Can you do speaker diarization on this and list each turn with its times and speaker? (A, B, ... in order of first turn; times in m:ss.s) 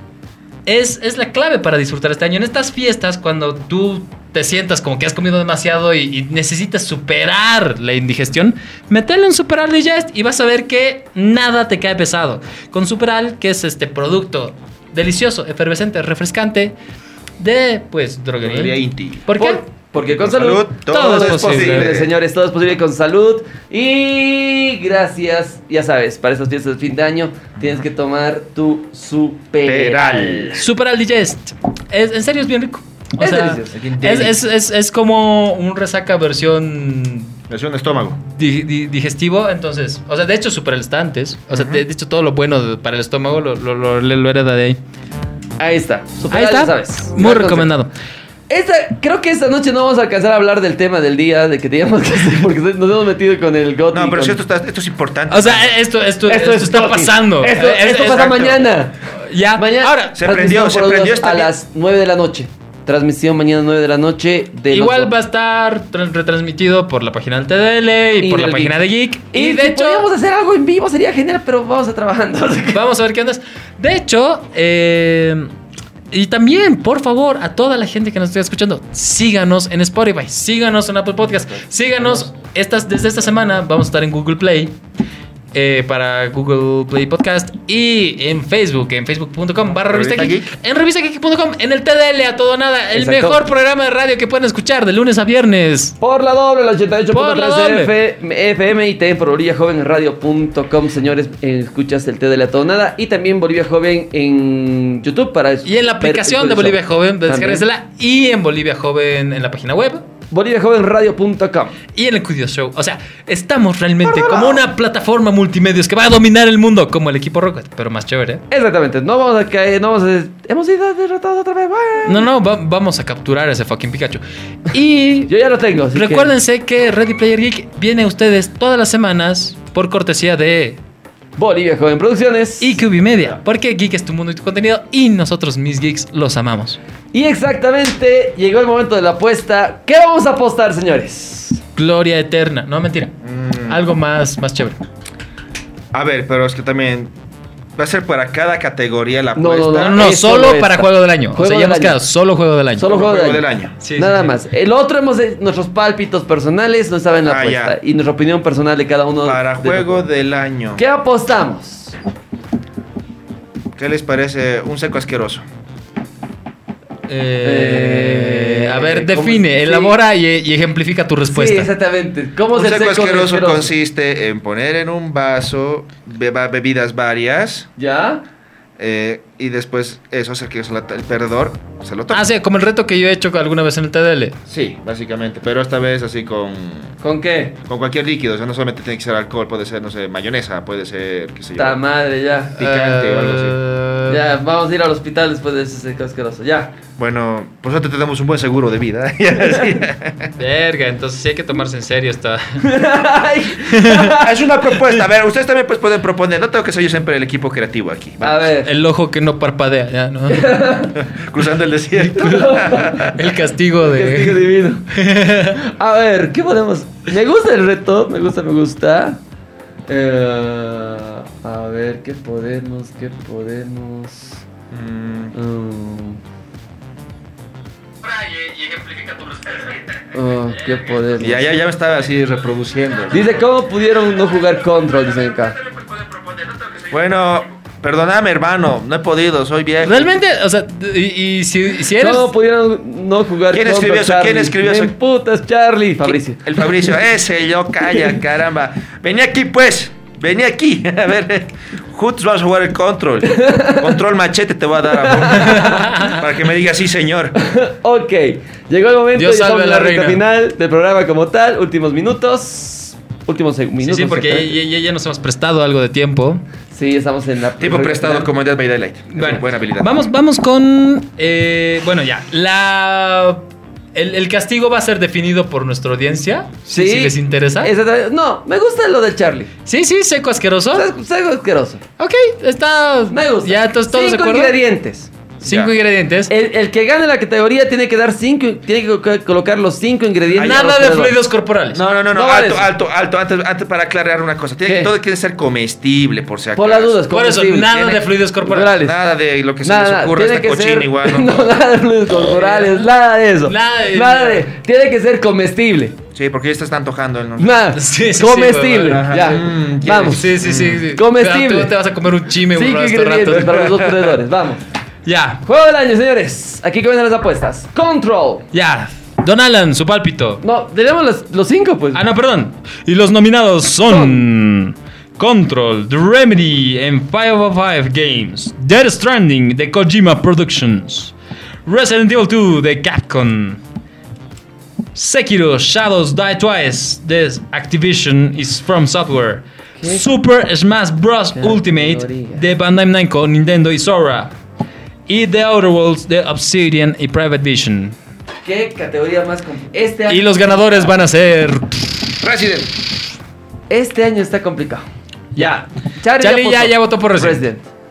0:00.7-0:16.8 A
0:17.4-0:19.6 A
0:18.4-0:19.3 B
0:19.4-0:30.7 C
0:20.0-0:22.1 B
0:20.9-0:21.9 A
0:29.6-0:30.7 B
0:30.6-0:37.4 A
0:33.2-0:33.8 C
0:33.7-0:34.4 B
0:37.5-0:38.2 B
0:38.2-0:44.8 A
0:41.5-0:41.8 B
0:45.6-0:47.7 C
0:46.3-0:47.9 A
0:48.5-0:54.4 C
0:53.9-0:55.8 B
0:55.3-0:58.6 A
0:56.3-0:59.0 C
0:58.0-0:58.6 B
0:59.2-1:00.2 A
0:59.6-1:05.1 C
1:00.2-1:01.5 B
1:04.7-1:10.1 A
1:08.2-1:12.8 C
1:12.7-1:15.5 A
1:16.1-1:24.8 A
1:25.5-1:36.0 A
1:29.8-1:30.5 B
1:32.9-1:33.4 C
1:36.0-1:47.6 C
1:37.1-1:37.9 A
1:45.6-1:50.0 A
1:50.3-1:51.8 C
1:51.9-1:58.4 A
1:54.1-1:54.6 B
1:58.5-2:02.3 C
2:02.0-2:05.3 A
2:05.3-2:06.3 C
2:05.9-2:10.8 A
2:11.4-2:12.8 C
2:12.6-2:16.8 A
2:17.1-2:21.6 C
2:21.8-2:23.1 A
2:23.2-2:23.8 B
2:23.7-2:24.8 A
2:25.9-2:27.1 B
2:27.8-2:30.1 B
2:29.4-2:32.0 C
2:29.8-2:32.9 A
2:32.8-2:40.0 C
2:32.8-2:33.8 B
2:33.8-2:34.3 A
2:37.2-2:37.8 B
2:39.2-2:40.8 B
2:40.8-2:42.0 C
2:43.8-2:45.4 B
2:47.1-2:51.7 A
2:47.4-2:50.0 C
2:51.3-2:53.7 C
2:52.5-2:57.7 B
2:57.8-2:58.2 C
2:58.8-3:02.2 B
3:02.1-3:04.4 A
3:04.5-3:07.0 B
3:07.0-3:07.6 C
3:07.6-3:11.8 B
3:11.6-3:12.6 C
3:12.6-3:13.6 B
3:12.6-3:14.2 A
3:14.1-3:16.8 C
3:17.0-3:20.3 B
3:20.4-3:22.6 A
3:22.6-3:24.6 C
3:23.6-3:24.2 A
3:24.2-3:28.5 B
3:28.2-3:28.7 C
3:28.6-3:30.7 A
3:30.3-3:31.0 C
3:31.0-3:33.2 B
3:32.1-3:35.6 A
3:32.1-3:33.2 C
3:33.8-3:34.9 C
3:35.5-3:39.2 C
3:39.9-3:44.4 C
3:44.7-3:45.4 B
3:45.3-3:46.2 C
3:48.0-3:49.8 A
3:50.1-3:51.5 C
3:51.2-3:53.4 B
3:53.1-3:55.6 C
3:56.9-4:00.1 B
3:59.8-4:02.3 A
4:02.0-4:06.8 C
4:03.5-4:05.0 B
4:06.0-4:17.4 B
4:13.3-4:14.0 C
4:14.9-4:16.0 C
4:15.3-4:16.2 A
4:17.4-4:24.6 C
4:19.2-4:20.2 A
4:23.8-4:26.4 A
4:26.7-4:28.3 C
4:27.6-4:29.9 B
4:29.2-4:37.7 A
4:36.7-4:39.5 C
4:39.7-4:40.9 A
4:40.7-4:41.8 C
4:42.0-4:44.6 A
4:43.1-4:45.1 C
4:45.4-4:45.7 B
4:45.4-4:46.3 A
4:46.3-4:51.2 C
4:50.3-4:50.6 B
4:50.4-4:51.8 A
4:51.7-4:57.0 B
4:52.1-4:52.7 C
4:54.6-4:54.9 C
4:56.6-4:59.0 C
4:57.1-4:58.8 A
4:58.7-5:01.5 B
4:59.6-5:06.0 C
5:02.3-5:02.8 A
5:03.5-5:04.5 A
5:06.2-5:07.6 B
5:07.4-5:10.3 C
5:07.7-5:09.1 A
5:08.8-5:10.8 B
5:10.0-5:13.7 A
5:10.9-5:11.8 C
5:12.5-5:14.6 C
5:15.1-5:15.4 A
5:15.4-5:18.5 C
5:18.5-5:20.4 A
5:20.4-5:22.0 C
5:21.9-5:31.1 A
5:23.9-5:24.2 C
5:31.7-5:33.6 A
5:35.0-5:44.3 A
5:39.8-5:40.1 C
5:41.4-5:42.5 C
5:45.1-5:48.0 A
5:48.4-5:50.3 C
5:50.1-5:51.8 A
5:52.2-5:52.8 B
5:53.7-5:54.8 C
5:55.4-5:55.6 A
5:55.4-5:57.7 C
5:56.2-5:57.4 A